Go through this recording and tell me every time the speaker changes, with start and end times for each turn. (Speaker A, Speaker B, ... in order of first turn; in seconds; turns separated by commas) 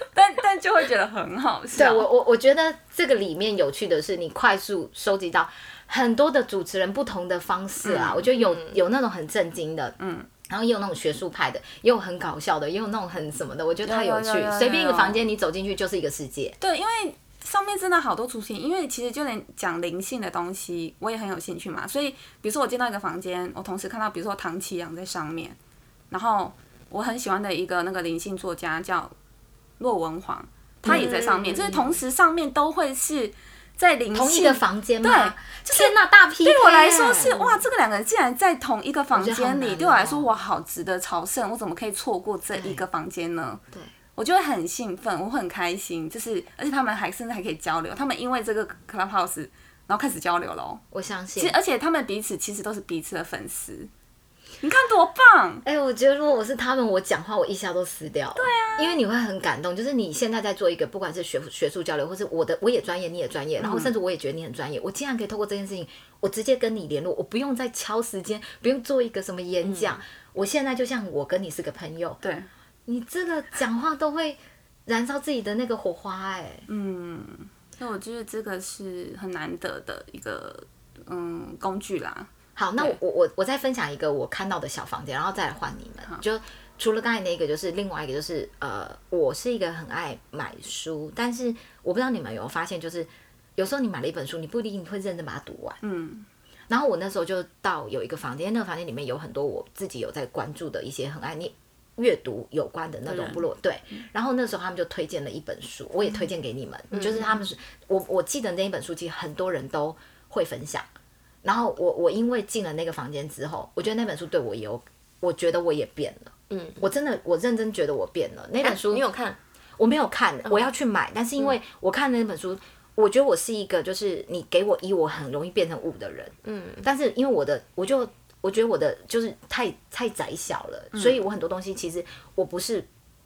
Speaker A: 0.1-2.1, Speaker B: 1.7-10.0, Speaker A: 7.8-8.3, Speaker C: 8.3-8.8, Speaker A: 10.0-10.3, Speaker B: 10.5-16.6, Speaker A: 13.8-15.2, Speaker A: 16.6-25.6, Speaker A: 26.1-29.1, Speaker A: 29.8-43.6, Speaker B: 30.9-32.0, Speaker C: 30.9-31.7, Speaker B: 34.1-37.6, Speaker B: 39.1-40.3, Speaker B: 42.5-42.8, Speaker A: 44.2-50.8, Speaker B: 50.9-51.6, Speaker A: 51.4-53.9, Speaker A: 54.6-55.6, Speaker B: 55.6-72.2, Speaker A: 58.4-59.0, Speaker A: 63.6-63.9, Speaker C: 69.6-69.9, Speaker A: 72.2-72.5, Speaker B: 72.9-76.7, Speaker A: 76.7-83.0, Speaker B: 82.6-95.8, Speaker A: 95.8-96.3, Speaker B: 96.7-110.9, Speaker A: 103.1-103.4, Speaker C: 106.9-107.3, Speaker B: 111.4-119.1, Speaker C: 116.5-116.8, Speaker C: 118.6-119.4, Speaker B: 119.8-132.9, Speaker C: 126.4-126.8